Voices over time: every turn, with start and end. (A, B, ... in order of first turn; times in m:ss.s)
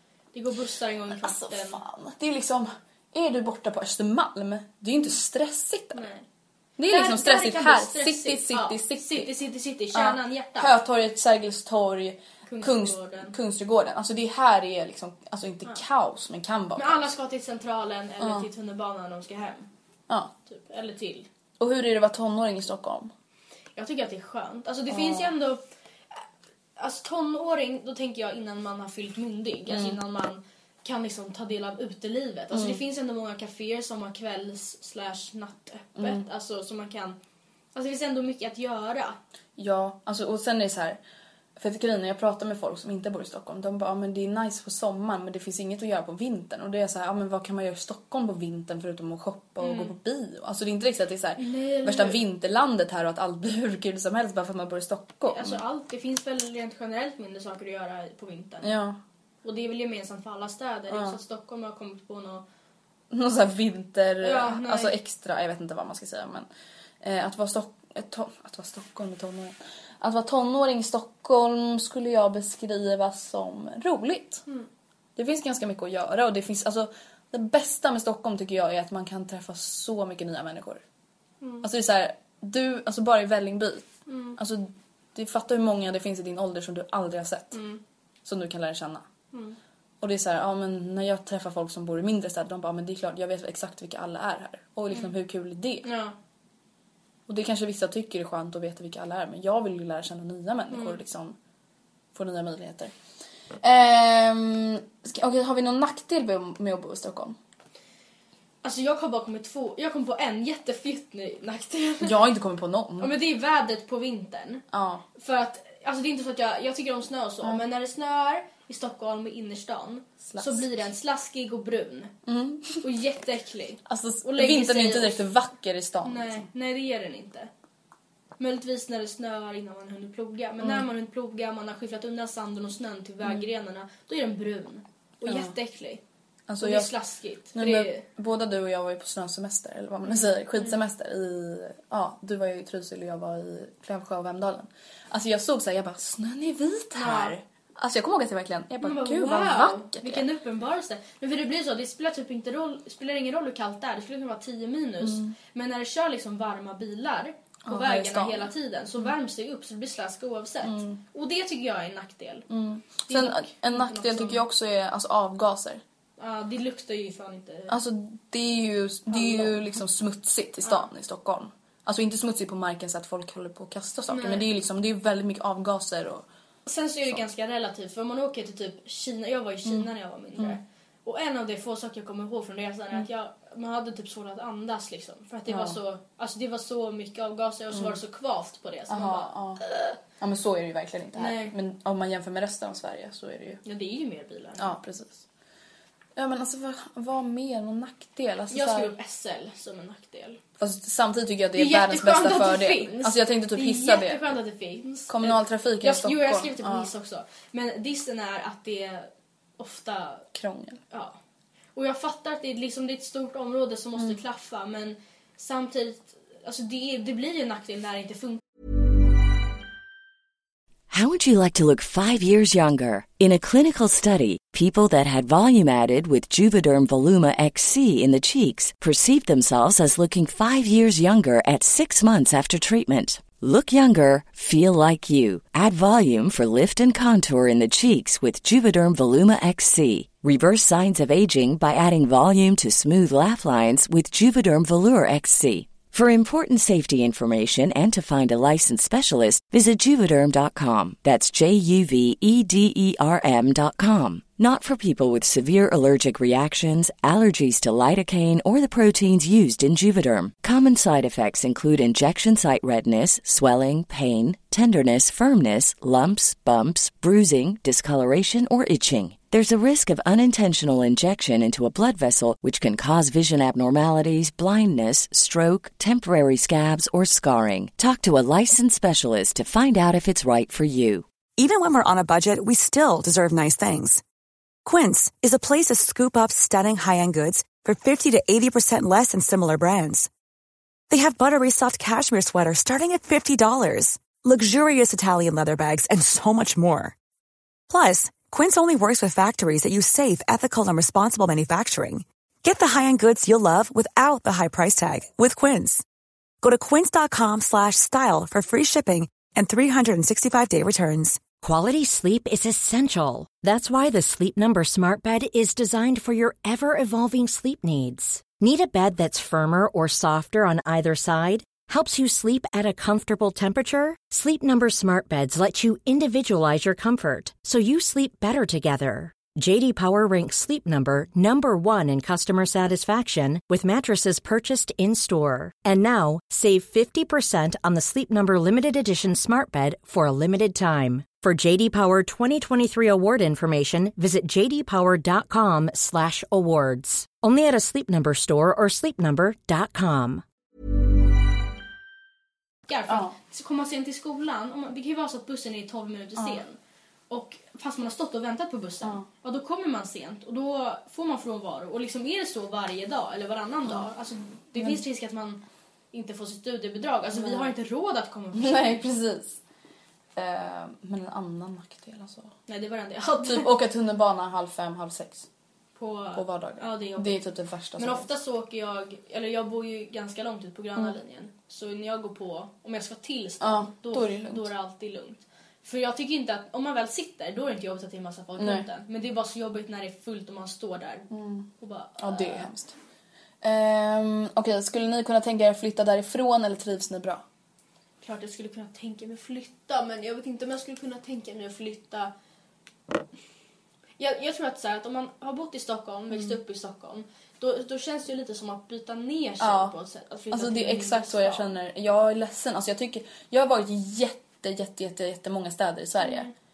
0:00.3-0:01.8 A
0:01.1-0:06.1 B
0:05.9-0:06.2 A
0:06.8-0:09.3 B
0:06.8-0:10.7 A
0:09.9-0:17.1 B
0:12.5-0:13.3 A
0:16.8-0:19.7 A
0:18.2-0:18.4 B
0:20.5-0:21.3 A
0:21.6-0:23.1 B
0:23.8-0:25.6 A
0:24.9-0:25.3 B
0:26.8-0:37.2 A
0:29.7-0:30.0 B
0:32.5-0:32.8 B
0:36.0-0:36.2 B
0:37.8-0:39.2 A
0:39.6-0:41.0 B
0:41.6-0:55.6 B
0:49.6-0:49.9 A
0:51.4-0:52.2 A
0:55.3-0:58.7 A
0:58.6-0:59.0 B
0:59.4-1:02.4 A
1:00.9-1:01.2 B
1:03.1-1:06.5 B
1:04.2-1:05.0 A
1:07.0-1:14.4 B
1:15.2-1:20.8 B
1:21.4-1:21.7 A
1:21.6-1:27.6 B
1:24.1-1:24.4 A
1:27.5-1:27.8 A
1:28.2-1:29.0 B
1:29.3-1:29.6 A
1:30.0-1:35.9 B
1:35.8-1:36.2 A
1:37.3-1:41.4 B
1:40.7-1:41.0 A
1:42.1-1:42.9 B
1:43.6-1:47.4 B
1:48.6-1:52.2 A
1:52.0-1:53.1 B
1:53.0-1:54.6 A
1:54.7-1:55.0 B
1:55.2-2:02.1 A
2:00.3-2:00.6 B
2:02.3-2:02.8 B
2:02.8-2:05.2 A
2:03.9-2:06.5 B
2:06.0-2:07.5 A
2:08.4-2:16.0 A
2:15.2-2:15.5 B
2:16.5-2:16.9 B
2:16.6-2:18.0 A
2:17.5-2:30.2 B
2:20.2-2:20.8 A
2:26.9-2:27.4 A
2:28.8-2:42.5 A
2:35.0-2:35.3 B
2:37.6-2:38.5 B
2:40.6-2:41.0 B
2:42.5-2:45.8 B
2:43.1-2:44.4 A
2:46.2-2:47.8 A
2:47.7-2:56.2 B
2:49.1-2:49.7 A
2:54.1-2:54.5 A
2:56.7-3:10.0 A
2:59.7-3:00.6 B
3:05.5-3:05.8 B
3:07.7-3:08.0 B
3:08.9-3:09.6 B
3:10.2-3:13.6 B
3:11.2-3:11.6 A
3:13.6-3:14.8 A
3:14.6-3:15.2 B
3:16.2-3:18.9 B
3:18.5-3:20.4 A
3:20.6-3:24.3 B
3:21.6-3:30.2 A
3:25.1-3:26.9 B
3:30.3-3:30.8 B
3:30.9-3:31.2 A
3:31.8-3:38.4 A
3:40.9-4:41.0 C
4:41.4-4:44.0 D
4:44.6-4:50.1 D
4:50.9-4:57.0 D
4:57.7-5:05.8 D
5:06.4-5:11.3 D
5:11.4-5:50.2 E
5:52.7-5:56.6 A
5:52.9-5:53.2 B
5:57.1-6:08.8 A
6:07.1-6:07.5 B
6:08.3-6:09.4 B
6:10.2-6:12.3 B
6:12.5-6:13.5 A
6:13.2-6:15.3 B
6:15.8-6:17.2 A
6:16.1-6:18.1 B
6:17.8-6:32.5 A
6:23.4-6:24.5 B
6:28.4-6:28.6 B
6:31.1-6:31.5 B
6:32.0-6:32.8 B
6:33.4-6:37.2 B
6:38.0-6:42.1 A
6:44.0-6:51.5 A
6:49.4-6:49.7 B
6:50.3-6:56.3 B
6:56.0-6:56.3 A